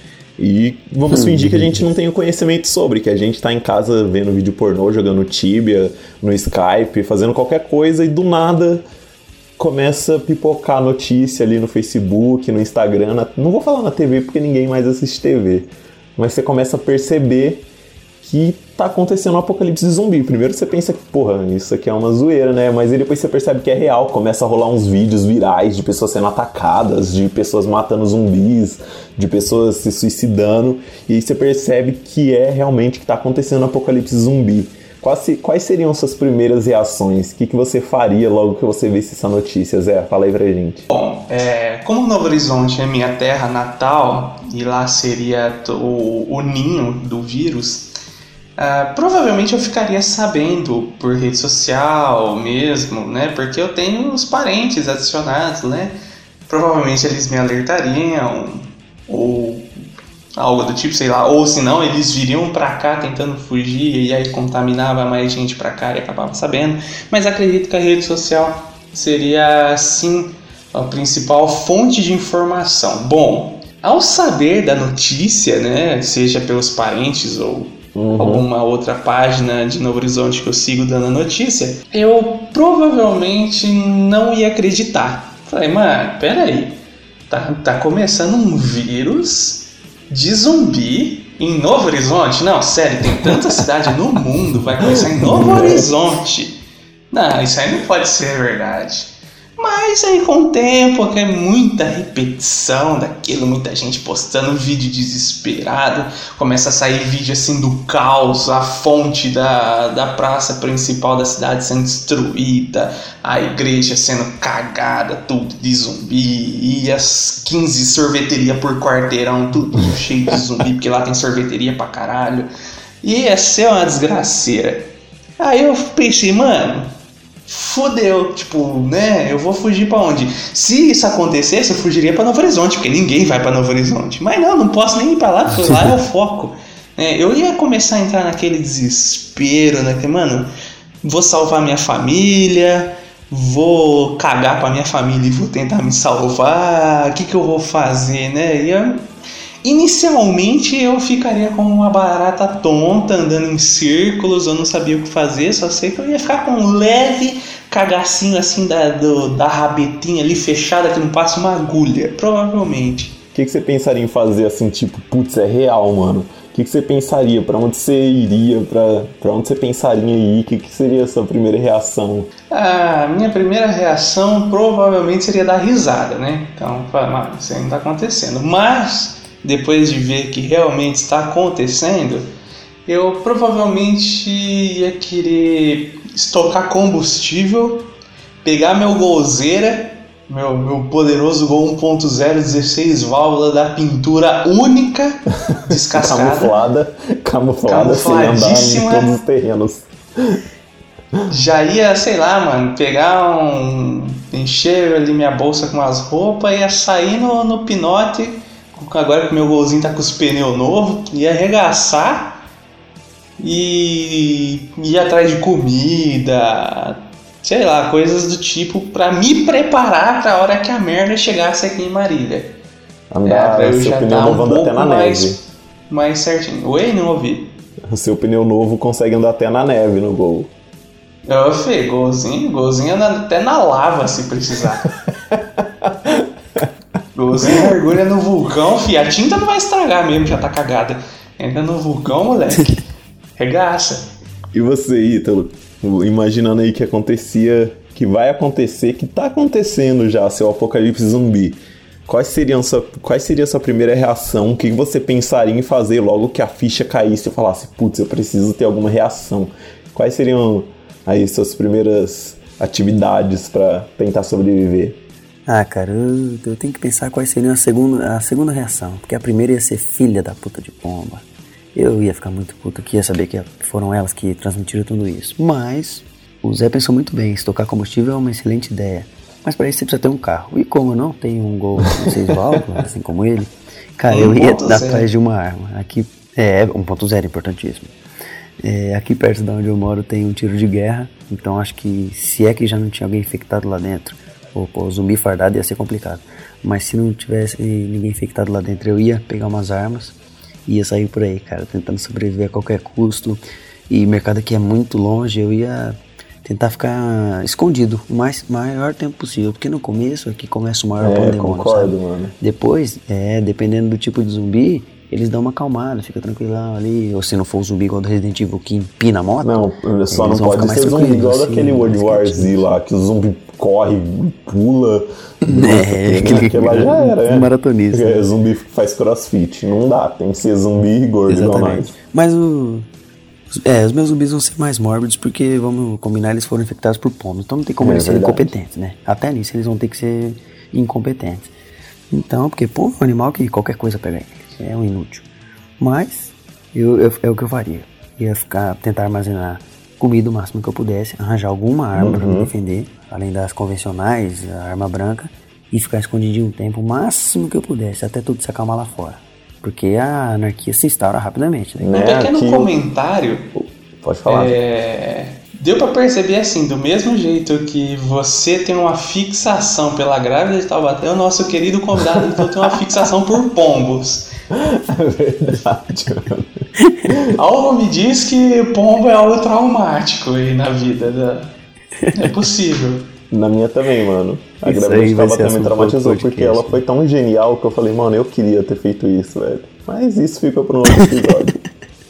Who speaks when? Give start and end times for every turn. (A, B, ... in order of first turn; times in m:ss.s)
0:00.4-0:08.8 A
0:01.1-0:01.8 B
0:09.6-0:17.7 A
0:18.2-0:40.9 A
0:40.9-0:47.9 C
0:48.6-0:56.0 C
0:56.5-0:59.7 C
1:00.4-1:26.8 C
1:18.0-1:18.5 A
1:27.3-2:02.5 C
1:34.9-1:35.9 A
2:03.0-2:06.9 C
2:07.5-2:20.5 C
2:21.0-2:29.0 C
2:29.6-2:43.2 C
2:43.3-2:52.3 A
2:52.5-3:02.3 C
3:02.9-3:07.9 C
3:08.4-3:16.6 C
3:15.7-3:20.4 A
3:17.6-3:19.1 C
3:21.3-3:32.4 C
3:33.4-3:42.6 C
3:43.1-3:45.4 A
3:43.2-3:47.6 C
3:47.9-3:50.5 A
3:51.3-3:54.9 C
3:55.3-3:56.7 A
3:57.2-4:02.8 C
3:57.4-3:57.7 A
4:03.4-4:04.1 C
4:04.5-4:25.0 A
4:25.5-4:47.9 B
4:42.3-4:42.6 A
4:44.1-4:45.1 C
4:48.6-5:00.2 B
5:00.7-5:22.6 B
5:11.0-5:12.4 A
5:19.4-5:32.0 A
5:25.4-5:28.2 B
5:31.3-5:32.9 B
5:33.5-5:41.5 B
5:37.8-5:38.5 A
5:42.1-5:45.3 B
5:45.8-6:01.9 B
5:52.0-5:52.5 A
6:01.8-6:02.7 A
6:01.9-6:03.5 C
6:03.6-6:04.6 A
6:04.3-6:14.3 C
6:12.1-6:12.6 A
6:14.5-6:16.5 A
6:16.8-6:17.1 B
6:17.1-6:17.4 A
6:17.3-6:21.5 C
6:22.1-6:23.1 C
6:23.3-6:31.6 A
6:24.6-6:26.8 B